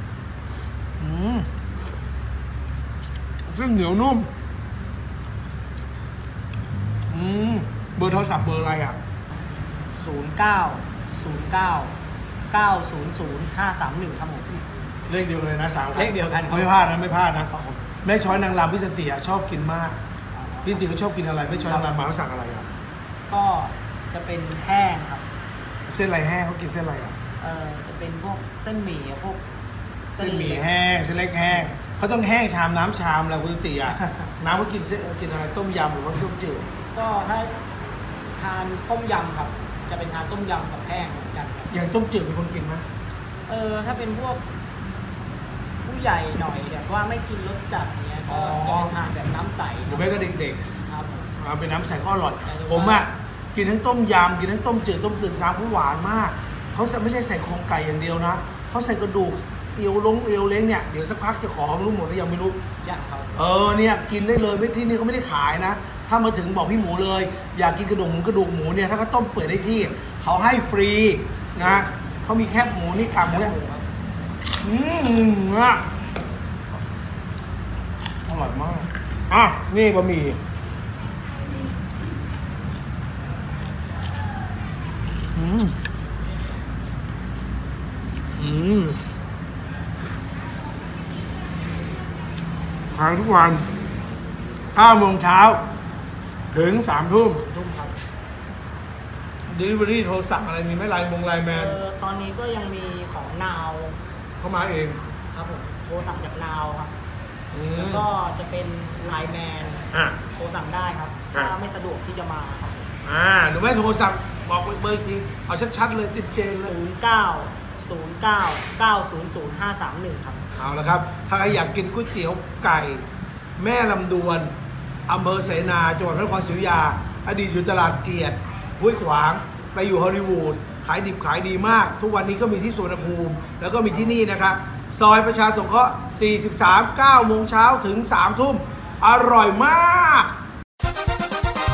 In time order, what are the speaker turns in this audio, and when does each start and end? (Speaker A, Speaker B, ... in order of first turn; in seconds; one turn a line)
Speaker A: 1.0-1.5
Speaker A: 3.4-4.3
Speaker A: 7.1-9.0
Speaker B: 9.9-11.9
Speaker B: 12.5-14.7
Speaker A: 15.1-20.0
Speaker B: 15.9-16.8
Speaker B: 17.4-17.9
Speaker B: 20.3-20.9
Speaker A: 20.6-22.7
Speaker B: 21.7-21.9
Speaker B: 23.3-25.3
Speaker A: 25.9-27.2
Speaker B: 27.4-29.4
Speaker B: 30.1-30.7
Speaker A: 30.2-36.7
Speaker B: 31.4-31.8
Speaker B: 34.0-34.3
Speaker B: 36.9-37.6
Speaker B: 38.4-41.7
Speaker A: 41.7-42.9
Speaker B: 43.5-44.5
Speaker B: 45.8-50.2
Speaker A: 48.3-49.0
Speaker A: 49.9-50.6
Speaker B: 50.8-51.3
Speaker A: 51.4-62.6
Speaker B: 52.4-53.1
Speaker B: 62.8-63.4
Speaker A: 63.4-73.6
Speaker B: 71.6-71.9
Speaker B: 73.1-73.9
Speaker A: 74.6-75.9
Speaker A: 78.2-80.4
Speaker A: 85.3-85.8
Speaker A: 88.4-89.0
Speaker A: 92.9-93.7
Speaker A: 94.8-95.6
Speaker A: 96.5-97.4
Speaker B: 97.4-98.0
Speaker A: 99.5-101.8
Speaker B: 101.5-104.0
Speaker A: 104.4-105.0
Speaker B: 105.3-106.9
Speaker A: 107.5-108.1
Speaker B: 107.7-112.9
Speaker A: 109.9-110.2
Speaker A: 113.0-116.8
Speaker B: 116.6-120.5
Speaker A: 120.6-123.0
Speaker A: 123.6-124.5
Speaker A: 125.1-140.4